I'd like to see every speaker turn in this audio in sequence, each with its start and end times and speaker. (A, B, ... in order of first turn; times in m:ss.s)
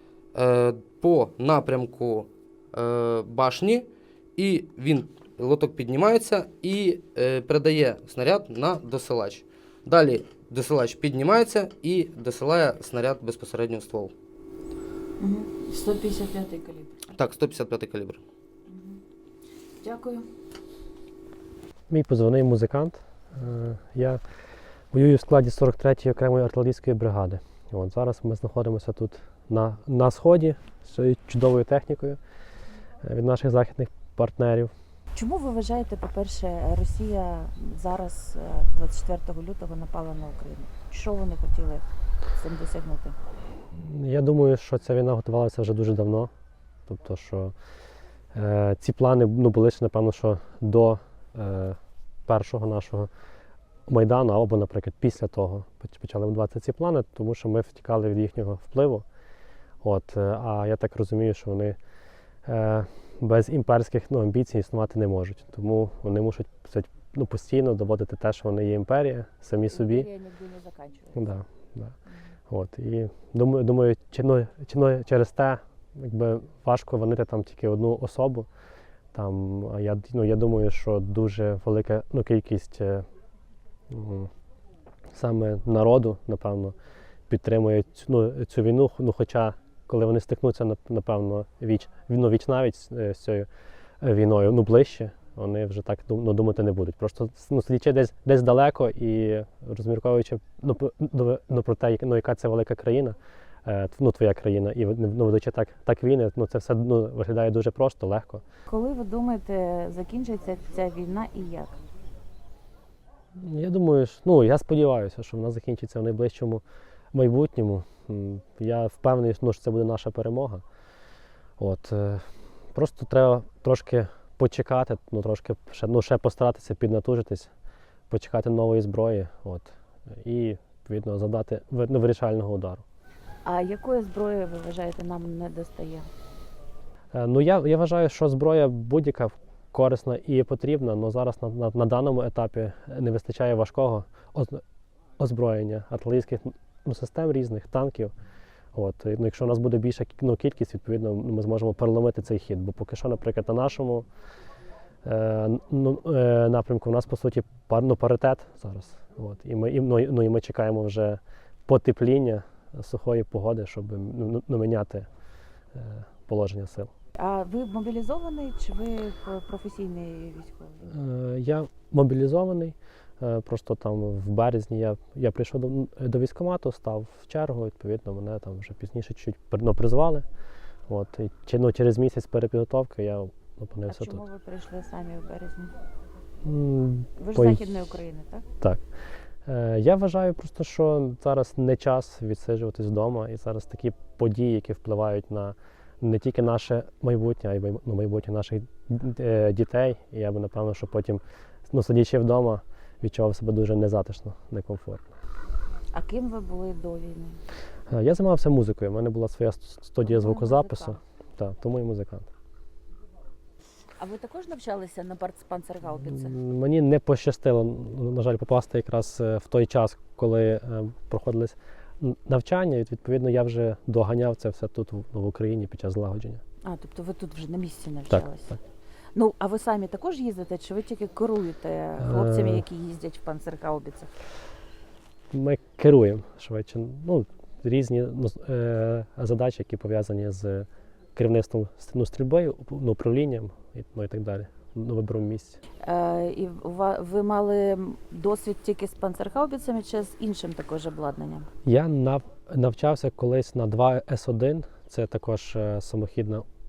0:00.4-0:14.1 A
0:15.2-0:17.0 B
0:17.1-0:18.2 A
0:18.7-0:19.0 B
0:19.8-0:20.2 B
0:21.9-0:24.2 C
0:24.9-0:32.2 C
0:33.0-0:34.7 C
0:35.1-0:41.8 B
0:42.4-0:43.2 B
0:43.8-0:46.3 C
0:46.9-0:47.6 C
0:48.3-0:53.1 C
0:53.9-0:59.0 C
0:59.8-1:01.8 C
1:02.4-1:10.1 C
1:09.7-1:11.3 B
1:11.1-1:11.9 C
1:12.0-1:12.3 B
1:12.5-1:18.5 C
1:19.1-1:23.1 C
1:23.9-1:24.3 C
1:25.1-1:26.8 C
1:27.3-1:33.5 C
1:34.0-1:48.4 C
1:48.7-1:51.8 B
1:53.4-2:00.6 C
2:01.6-2:07.5 C
2:08.1-2:12.8 C
2:13.4-2:16.1 B
2:17.1-2:24.6 C
2:25.2-2:28.1 C
2:28.8-2:34.1 C
2:35.0-2:45.1 C
2:45.7-2:46.9 C
2:47.2-2:50.9 B
2:50.9-3:00.3 C
3:00.9-3:04.2 C
3:03.9-3:05.7 B
3:06.4-3:07.6 C
3:07.2-3:08.4 B
3:09.4-3:25.1 C
3:25.9-3:27.4 B
3:27.9-3:32.3 C
3:30.0-3:31.0 B
3:34.0-3:36.4 B
3:36.1-3:46.4 C
3:46.6-3:48.6 B
3:48.1-3:48.6 C
3:49.1-3:54.1 B
3:52.0-3:52.6 C
3:55.3-4:05.6 C
4:05.8-4:11.5 B
4:11.6-4:16.4 C